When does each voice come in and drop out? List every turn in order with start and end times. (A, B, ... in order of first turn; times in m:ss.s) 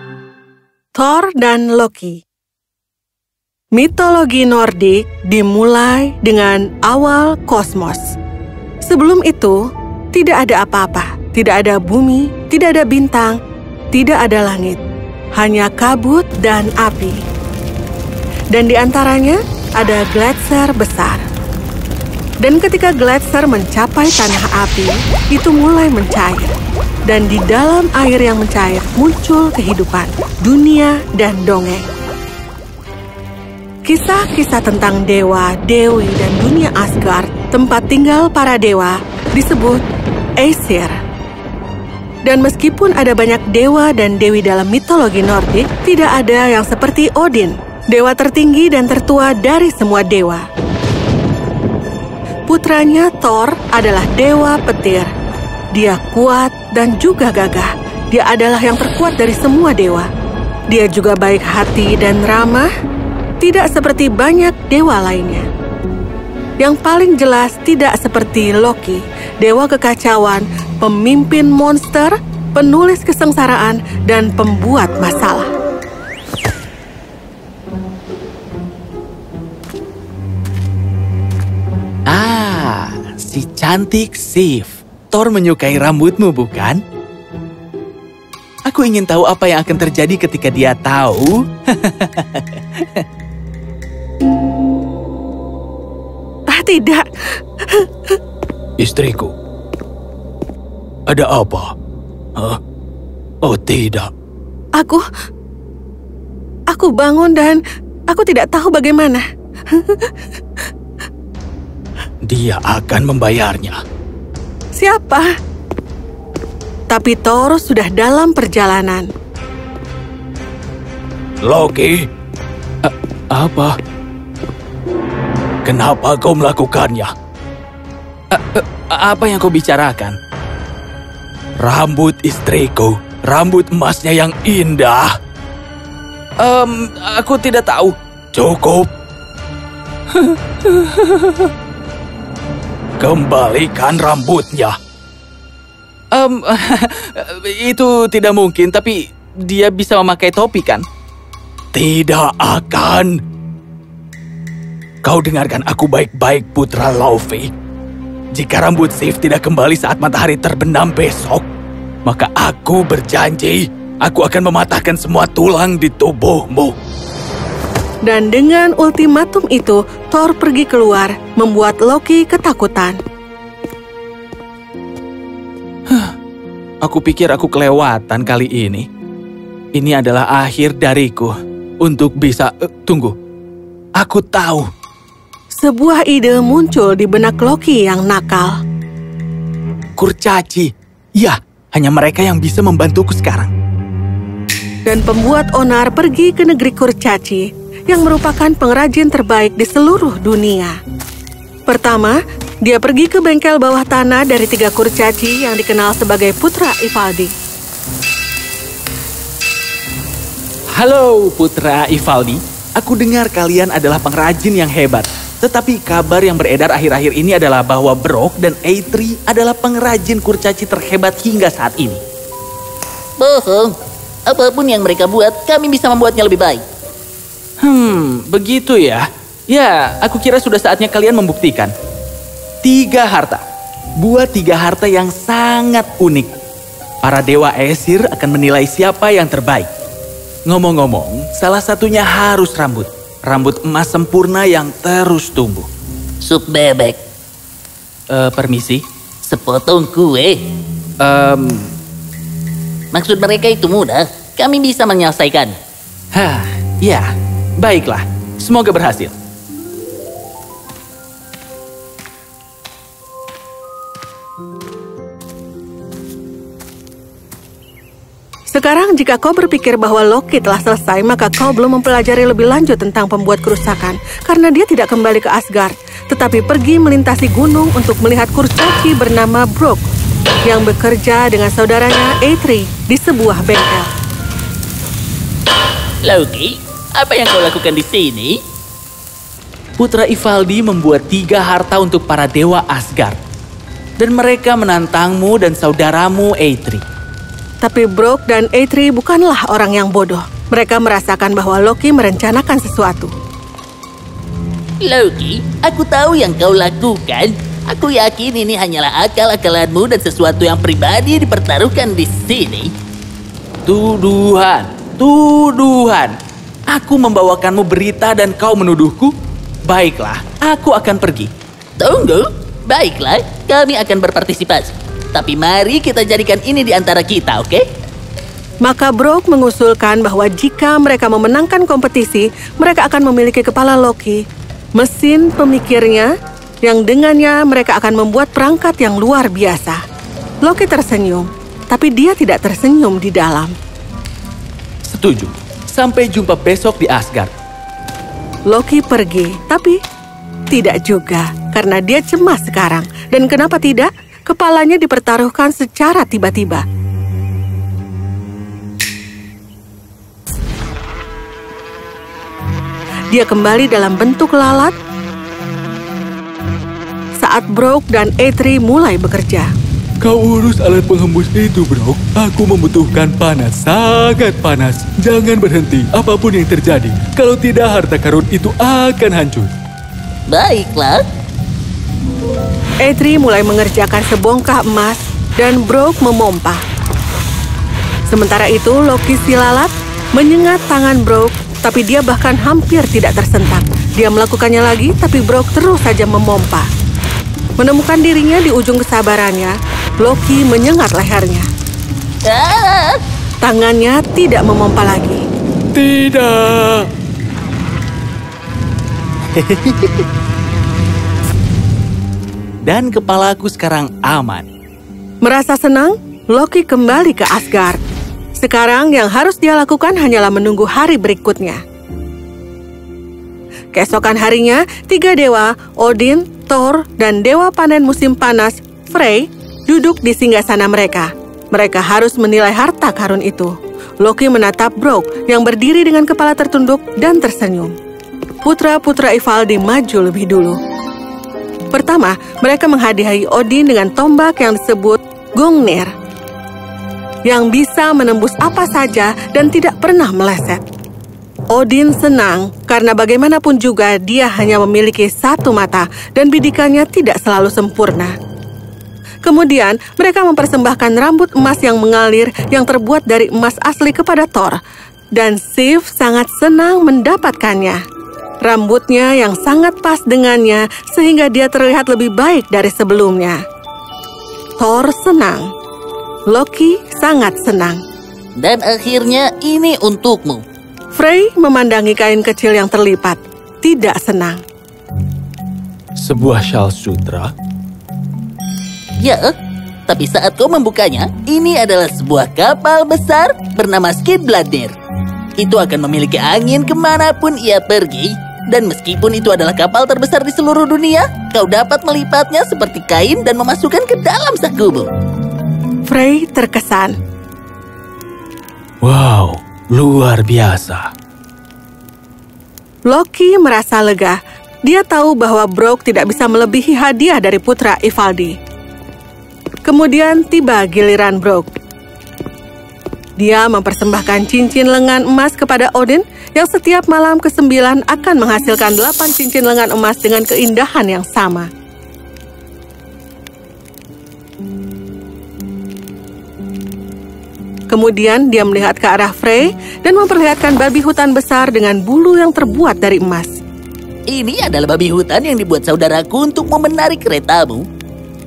0:01.0-0:02.2 A
0:03.8-0:08.1 A
0:08.9-0:09.6 A
0:10.1-0:13.4 A
0:13.9-0:14.8 A
0:15.4-0:17.2 A
0:18.5-0:21.2 A
0:22.4-0:26.5 A
0:27.1-0:31.9 A
0:33.9-0:39.8 A
0:40.4-0:41.0 A
0:42.2-0:50.5 A
0:52.5-0:55.1 A
0:55.8-1:00.1 A
1:00.7-1:02.7 A
1:03.4-1:05.5 A
1:06.6-1:15.5 A
1:22.1-1:26.8 B
1:28.7-1:33.0 B
1:36.5-1:37.0 A
1:37.7-1:38.2 A
1:38.8-1:39.3 B
1:41.1-1:41.7 B
1:43.4-1:44.1 B
1:44.8-1:45.0 A
1:46.7-1:50.1 A
1:52.2-1:53.8 B
1:54.8-1:55.3 A
1:56.9-1:59.1 A
2:01.4-2:02.1 B
2:02.8-2:03.8 B
2:05.6-2:07.1 B
2:08.3-2:10.2 B
2:11.6-2:15.1 B
2:16.4-2:18.9 B
2:20.1-2:21.5 B
2:23.0-2:24.8 B
2:26.1-2:30.8 B
2:31.7-2:33.2 B
2:35.0-2:37.5 B
2:38.3-2:41.5 B
2:42.0-2:46.8 B
2:48.1-2:53.0 A
2:56.8-2:58.9 B
2:59.8-3:03.2 B
3:04.0-3:04.7 B
3:05.6-3:08.6 A
3:10.0-3:13.5 B
3:14.9-3:20.8 A
3:21.7-3:27.3 A
3:30.8-3:42.0 B
3:43.2-3:43.7 C
3:44.3-3:46.6 C
3:47.6-3:51.7 B
3:52.6-3:53.4 B
3:54.0-3:56.3 B
3:57.0-3:59.7 B
4:00.5-4:05.7 B
4:06.2-4:07.0 C
4:08.1-4:08.8 B
4:09.3-4:10.4 C
4:11.0-4:11.7 B
4:12.9-4:15.6 C
4:16.1-4:17.1 B
4:17.6-4:19.2 B
4:28.5-4:39.8 A
4:40.5-4:43.9 A
4:46.0-4:48.4 C
4:49.8-4:53.2 B
4:54.0-4:56.8 B
4:57.6-5:03.1 A
5:04.8-5:12.7 C
5:13.7-5:16.1 B
5:16.7-5:19.1 B
5:19.7-5:21.3 B
5:21.8-5:27.6 C
5:28.6-5:34.2 A
5:34.8-5:36.1 A
5:36.6-5:39.8 A
5:40.4-5:43.5 A
5:44.9-5:47.3 B
5:48.5-5:49.8 A
5:50.5-5:56.6 A
6:03.1-6:04.7 A
6:07.2-6:09.5 A
6:10.0-6:19.5 B
6:20.3-6:21.0 C
6:22.8-6:26.6 A
6:28.1-6:36.7 A
6:37.6-6:41.5 A
6:42.3-6:43.0 C
6:43.4-6:45.2 A
6:45.7-6:46.9 B
6:49.4-6:50.0 B
6:52.7-6:54.5 B
6:55.2-6:57.8 A
6:58.4-7:01.6 A
7:03.7-7:17.8 A
7:18.4-7:20.6 A
7:21.7-7:25.9 A
7:27.3-7:30.6 A
7:31.5-7:38.2 A
7:39.2-7:44.6 A
7:45.2-7:47.8 A
7:48.4-7:53.4 A
7:54.6-7:55.5 A
7:56.3-7:57.8 A
7:58.4-8:00.4 C
8:00.9-8:04.4 A
8:06.0-8:07.3 B
8:09.0-8:09.3 C
8:09.9-8:14.7 C
8:15.4-8:24.9 C
8:25.9-8:27.0 A
8:28.8-8:30.9 B
8:32.9-8:38.4 A
8:39.6-8:41.5 A
8:43.2-8:51.5 A
8:57.7-9:03.4 A
9:04.1-9:07.6 C